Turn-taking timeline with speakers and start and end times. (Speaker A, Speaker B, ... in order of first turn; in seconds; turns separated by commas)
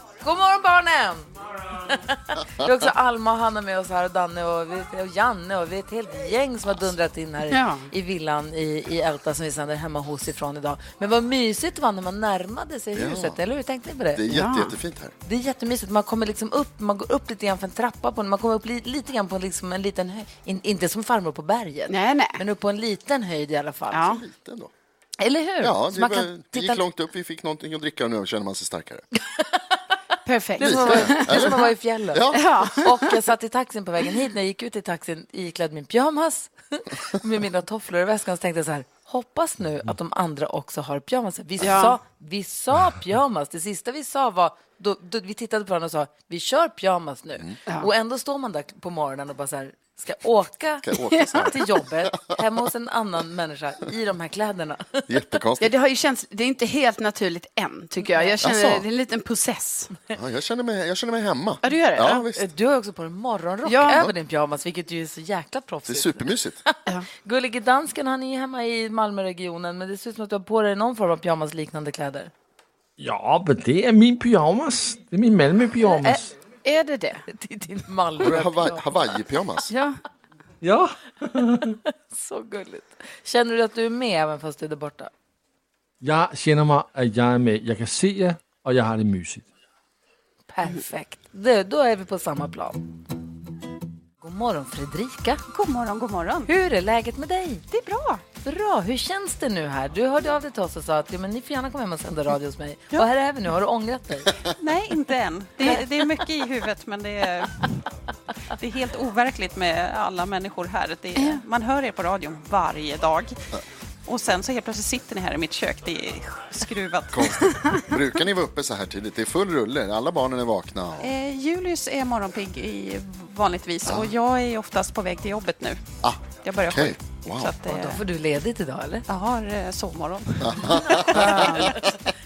Speaker A: 0.2-14.3, Speaker B: 7.5-7.9, Speaker C: 12.9-13.4, Speaker C: 14.1-15.1, Speaker B: 14.3-14.7, Speaker A: 15.2-24.1, Speaker B: 21.9-22.4, Speaker B: 23.9-24.2, Speaker C: 23.9-24.7, Speaker A: 25.2-26.8, Speaker C: 25.6-29.1, Speaker B: 30.2-31.6, Speaker A: 30.6-55.1, Speaker C: 30.6-32.7, Speaker B: 32.3-33.1, Speaker B: 41.6-42.0, Speaker C: 50.8-52.4, Speaker C: 55.1-55.7, Speaker B: 55.6-59.9, Speaker A: 58.0-58.4, Speaker C: 58.4-58.9, Speaker C: 60.1-62.5, Speaker B: 61.6-62.2, Speaker A: 62.3-72.3, Speaker B: 63.6-64.1, Speaker C: 65.8-66.6, Speaker D: 73.0-76.3, Speaker A: 75.8-76.3, Speaker B: 76.6-77.2, Speaker A: 77.3-79.0, Speaker C: 78.2-79.7, Speaker B: 79.7-80.0, Speaker D: 80.6-81.8, Speaker A: 82.1-85.1, Speaker D: 86.0-89.5, Speaker A: 90.5-92.8, Speaker A: 94.2-95.4, Speaker E: 95.5-96.5, Speaker A: 96.5-97.6, Speaker E: 97.7-98.2, Speaker A: 98.4-104.4, Speaker E: 104.6-107.7, Speaker E: 108.6-113.3, Speaker E: 114.1-117.5, Speaker C: 117.1-121.1, Speaker E: 121.0-128.0, Speaker C: 126.0-127.5, Speaker A: 127.6-129.1, Speaker E: 129.1-131.1, Speaker C: 130.4-132.0, Speaker A: 130.7-131.8, Speaker B: 131.1-131.7